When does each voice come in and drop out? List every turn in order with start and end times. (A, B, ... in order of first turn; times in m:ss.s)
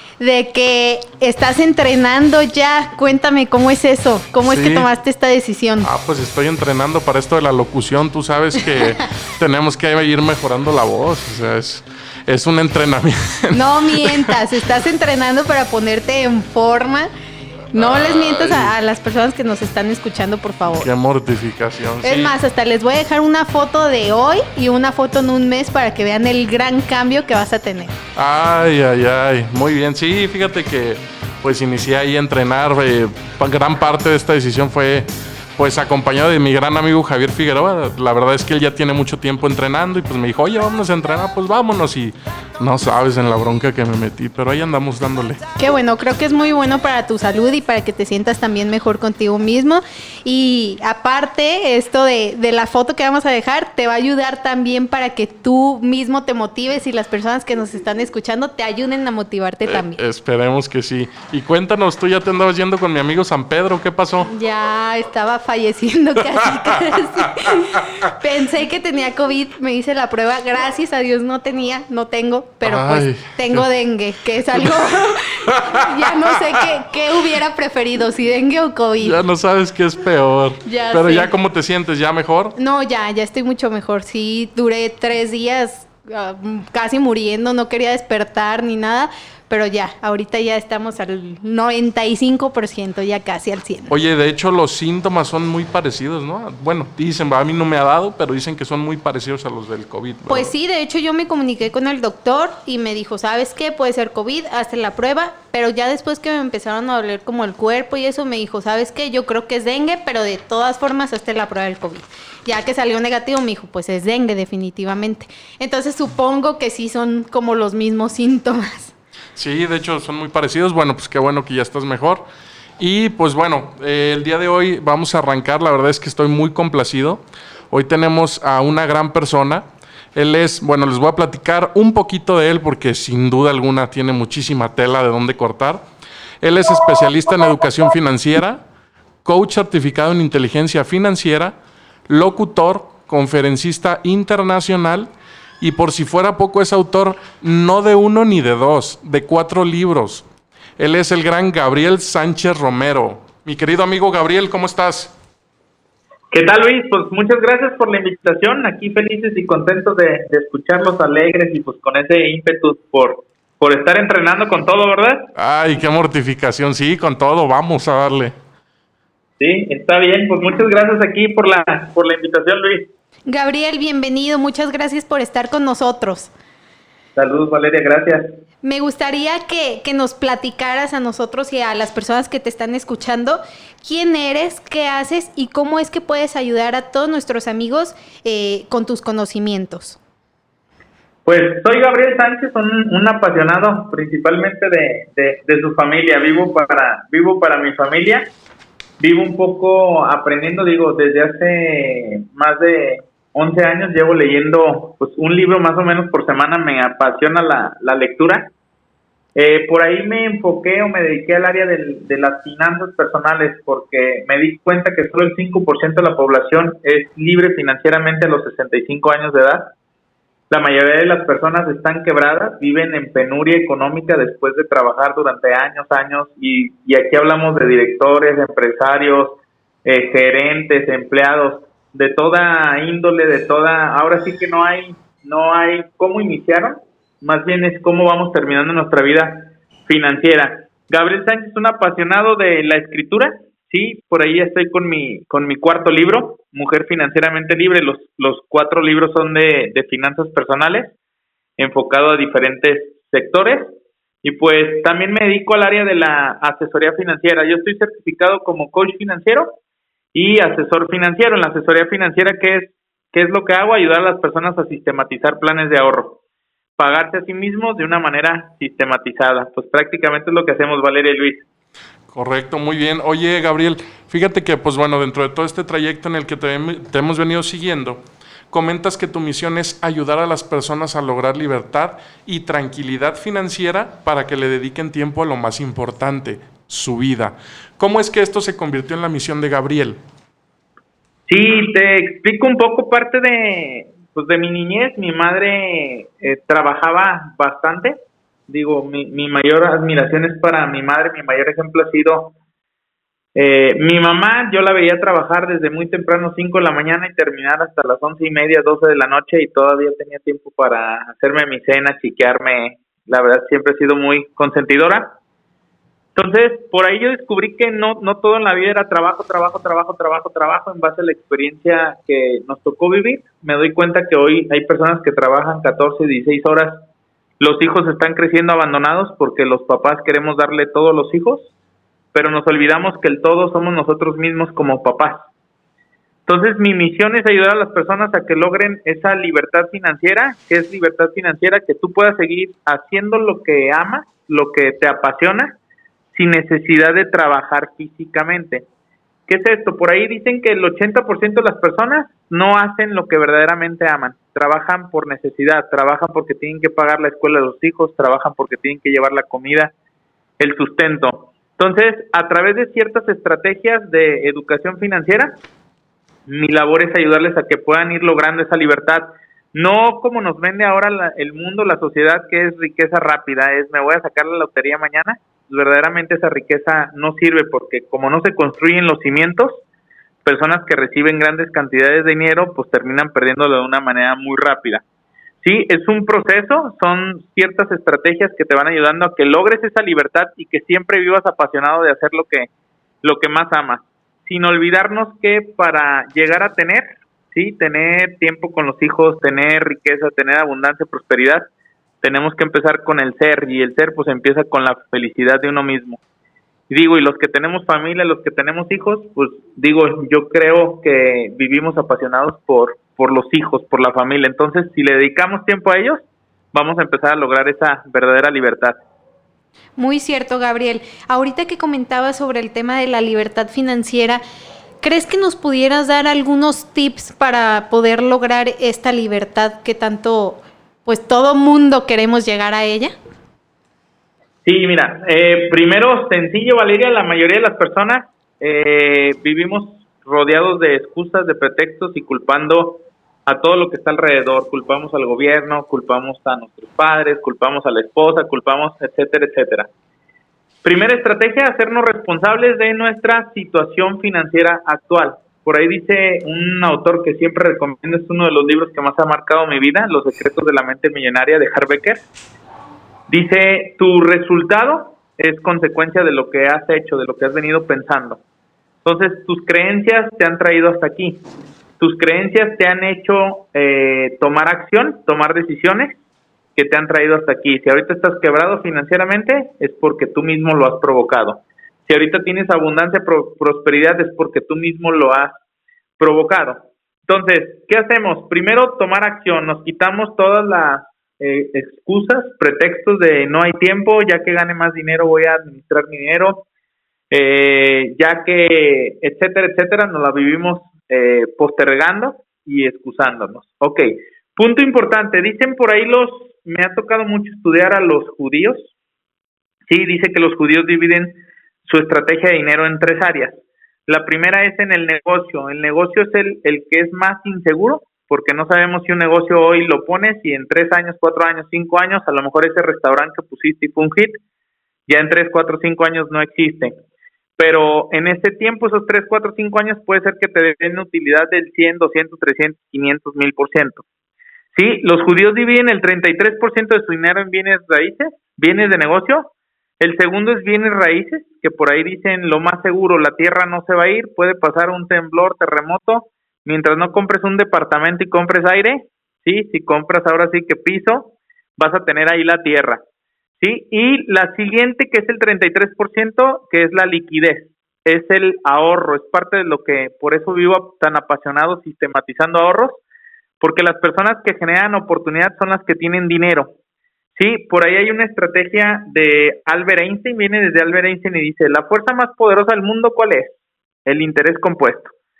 0:00.2-0:05.9 A
0:04.5-0:04.9 B
0:05.8-0:14.3 B
0:13.5-0:17.1 A
0:17.7-0:20.9 A
0:17.7-0:18.7 B
0:20.7-0:22.4 B
0:22.0-0:27.9 A
0:28.2-0:45.4 B
0:45.6-1:00.0 A
0:59.6-1:04.3 B
1:04.3-1:19.2 A
1:12.6-1:13.7 B
1:14.5-1:16.3 B
1:19.0-1:22.6 B
1:20.6-1:21.3 A
1:22.6-1:33.9 A
1:33.9-1:40.5 B
1:40.3-1:58.9 A
1:59.4-2:02.2 B
2:02.8-2:15.8 B
2:16.4-2:18.6 B
2:19.2-2:21.5 B
2:22.1-2:25.1 B
2:25.6-2:30.2 B
2:30.8-2:35.1 B
2:36.3-2:45.3 C
2:45.4-2:48.3 B
2:49.4-2:52.9 C
2:53.3-2:56.3 A
2:57.2-2:58.3 C
2:58.6-3:10.0 A
3:11.2-3:18.3 C
3:19.0-3:28.5 C
3:29.3-3:39.7 C
3:40.5-4:11.0 C
4:11.6-4:13.7 C
4:14.2-4:19.6 C
4:20.1-4:26.2 C
4:26.8-4:31.4 C
4:32.1-4:50.0 B
4:51.3-4:58.0 C
4:58.5-5:02.3 C
5:03.3-5:15.2 C
5:16.1-5:26.8 C
5:27.4-5:31.5 C
5:32.1-5:35.3 C
5:36.3-5:45.6 C
5:46.1-5:48.6 C
5:49.3-5:59.7 C
6:00.4-6:05.4 C
6:06.3-6:19.6 C
6:20.2-6:24.8 C
6:25.4-6:32.5 C
6:33.0-6:41.5 C
6:42.0-6:46.0 C
6:46.7-6:58.8 C
6:59.8-7:04.2 A
7:04.8-7:12.9 A
7:14.4-7:29.7 C
7:30.6-7:42.0 C
7:43.1-7:48.2 C
7:48.8-7:51.2 C
7:51.8-7:56.0 C
7:56.6-8:05.3 C
8:06.0-8:16.4 C
8:17.1-8:23.8 C
8:24.4-8:28.7 C
8:29.7-8:44.2 C
8:44.9-8:46.7 C
8:47.4-8:53.8 C
8:54.5-9:12.8 C
9:13.4-9:22.8 C
9:23.4-9:26.5 C
9:27.2-9:33.3 C
9:33.8-9:34.9 C